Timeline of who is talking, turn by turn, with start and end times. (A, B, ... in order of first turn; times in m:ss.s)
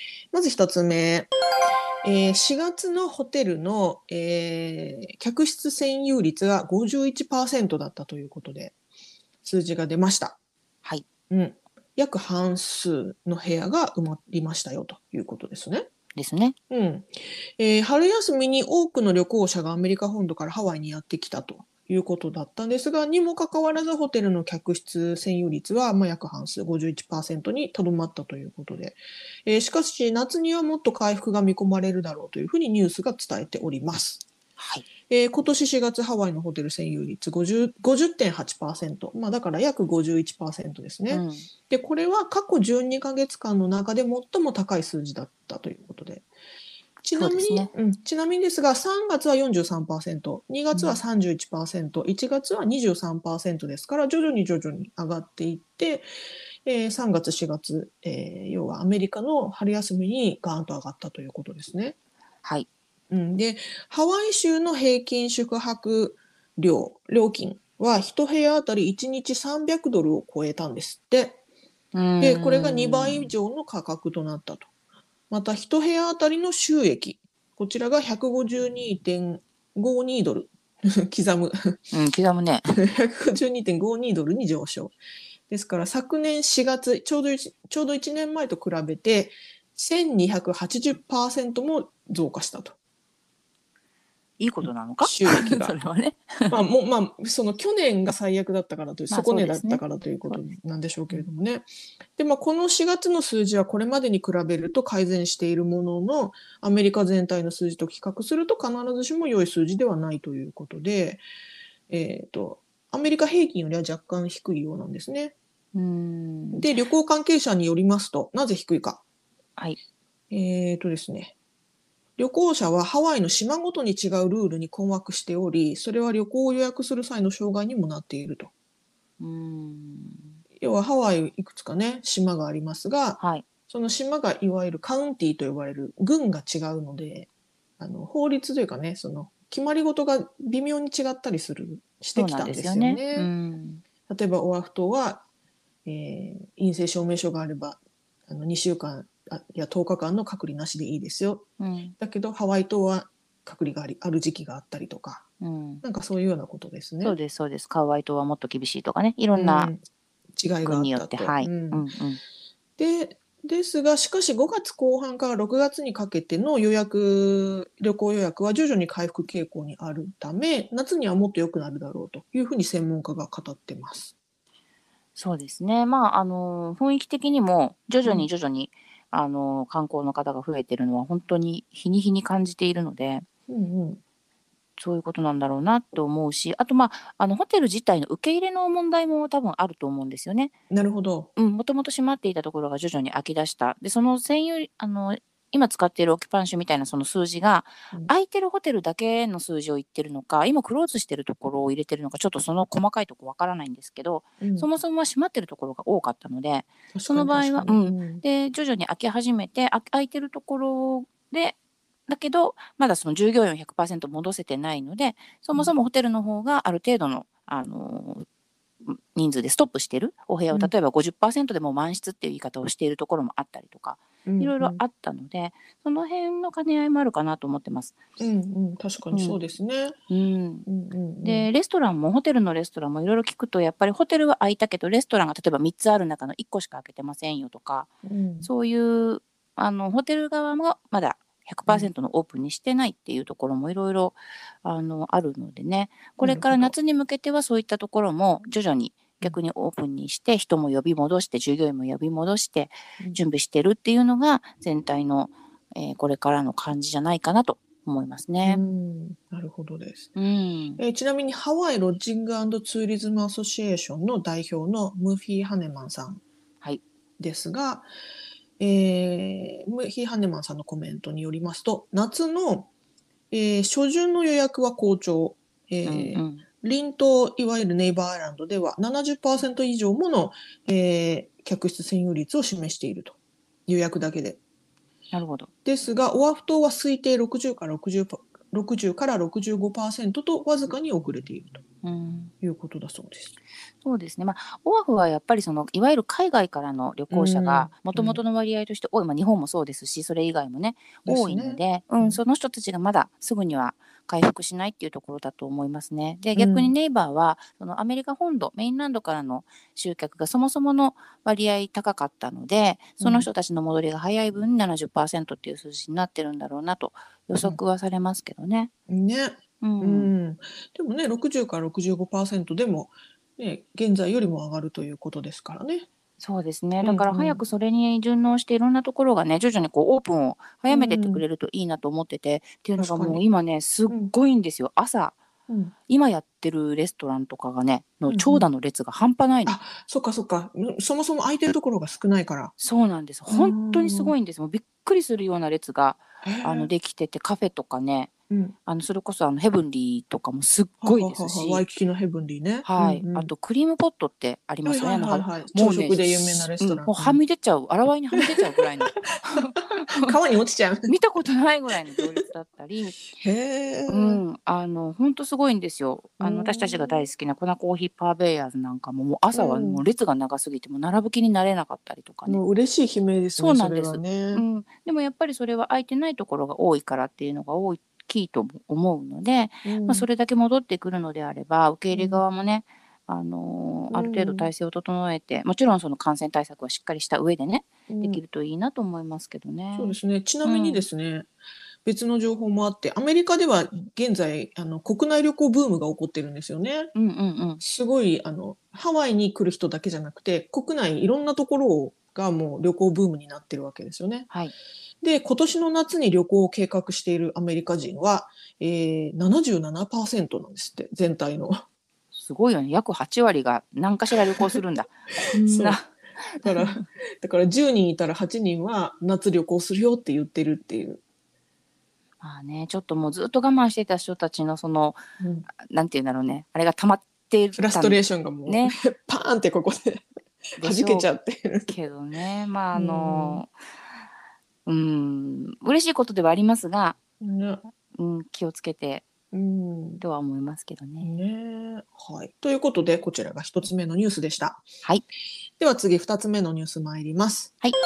0:00.3-0:01.3 A
0:02.0-0:08.7 A
0:09.4-0:10.4 A
0:11.3-0:15.9 A
0:16.2-0:16.6 B
0:16.7-0:34.2 A
0:34.6-0:34.8 B
0:35.1-0:46.2 A
0:41.1-0:41.5 B
0:47.0-0:56.1 A
0:47.1-0:47.7 B
0:50.7-0:51.0 B
0:56.6-1:02.0 A
1:03.1-1:11.4 A
1:11.9-1:13.3 B
1:12.2-1:14.7 A
1:15.3-1:21.9 A
1:21.9-1:22.6 B
1:22.8-1:25.0 A
1:25.5-1:32.8 A
1:34.4-1:36.6 B
1:34.6-1:35.7 A
1:36.5-1:41.6 A
1:39.1-1:40.4 B
1:42.2-1:51.2 A
1:51.9-1:55.3 A
1:55.7-1:56.7 B
1:56.5-1:59.0 A
2:00.3-2:01.3 A
2:02.2-2:08.5 A
2:09.2-2:10.3 B
2:10.6-2:17.3 A
2:13.2-2:13.4 B
2:17.8-2:23.3 A
2:22.1-2:23.8 B
2:24.1-2:25.2 A
2:25.8-2:31.4 A
2:31.6-2:32.0 B
2:32.0-2:35.2 A
2:35.4-2:35.8 B
2:35.8-2:37.2 A
2:37.0-2:39.7 B
2:39.3-2:39.8 A
2:40.4-2:41.8 A
2:40.6-2:42.2 B
2:42.8-2:54.1 A
2:55.2-3:03.2 B
3:03.5-3:04.0 A
3:04.8-3:10.5 B
3:10.7-3:11.3 A
3:11.4-3:31.6 B
3:24.4-3:24.7 A
3:26.9-3:28.2 A
3:32.1-3:38.2 B
3:38.8-3:48.0 B
3:44.2-3:44.8 A
3:48.2-3:50.0 A
3:49.1-3:49.4 B
3:50.1-3:50.7 B
3:50.6-3:51.5 A
3:51.2-3:57.9 B
3:58.0-3:58.5 A
3:58.4-4:18.6 B
4:06.2-4:06.7 A
4:18.4-4:20.1 A
4:20.1-4:20.8 B
4:20.8-4:26.2 A
4:27.2-4:27.9 A
4:28.6-4:32.7 A
4:33.3-4:44.4 A
4:35.8-4:36.4 B
4:45.1-4:45.5 B
4:45.6-4:51.6 A
4:51.8-4:52.3 B
4:52.4-4:53.3 A
4:53.8-5:18.7 B
4:57.1-4:58.2 A
5:01.0-5:02.2 A
5:06.4-5:06.7 A
5:13.0-5:13.3 A
5:18.9-5:25.9 A
5:19.6-5:20.1 B
5:26.2-5:35.2 B
5:26.8-5:27.4 A
5:30.7-5:31.2 A
5:32.8-5:33.2 A
5:35.5-5:35.7 A
5:35.9-5:39.5 B
5:38.1-5:38.5 A
5:39.4-5:42.5 A
5:42.6-5:48.1 B
5:43.3-5:44.1 A
5:46.2-5:46.7 A
5:48.3-5:48.6 A
5:48.6-5:51.6 B
5:50.8-5:53.3 A
5:52.6-6:00.1 B
5:54.6-5:57.2 A
5:58.1-6:00.9 A
6:00.9-6:03.0 B
6:03.1-6:04.2 A
6:03.9-6:12.4 B
6:06.2-6:07.1 A
6:09.3-6:09.8 A
6:12.2-6:14.4 A
6:13.4-6:30.8 B
6:19.6-6:20.1 A
6:21.9-6:22.2 A
6:23.9-6:24.5 A
6:27.9-6:28.2 A
6:29.7-6:31.3 A
6:31.8-6:36.9 A
6:36.9-6:37.6 B
6:37.6-6:44.3 A
6:45.0-6:51.6 A
6:52.1-6:56.8 B
6:55.2-6:55.8 A
6:56.4-7:01.0 A
7:02.2-7:05.0 B
7:05.2-7:05.5 A
7:05.5-7:08.8 B
7:07.5-7:10.0 A
7:10.6-7:11.7 A
7:10.6-7:11.1 B
7:11.7-7:13.5 B
7:12.7-7:13.4 A
7:14.6-7:17.0 B
7:17.2-7:17.6 A
7:17.9-7:19.0 B
7:19.3-7:20.0 A
7:20.0-7:21.1 B
7:21.0-7:24.6 A
7:25.6-7:27.5 A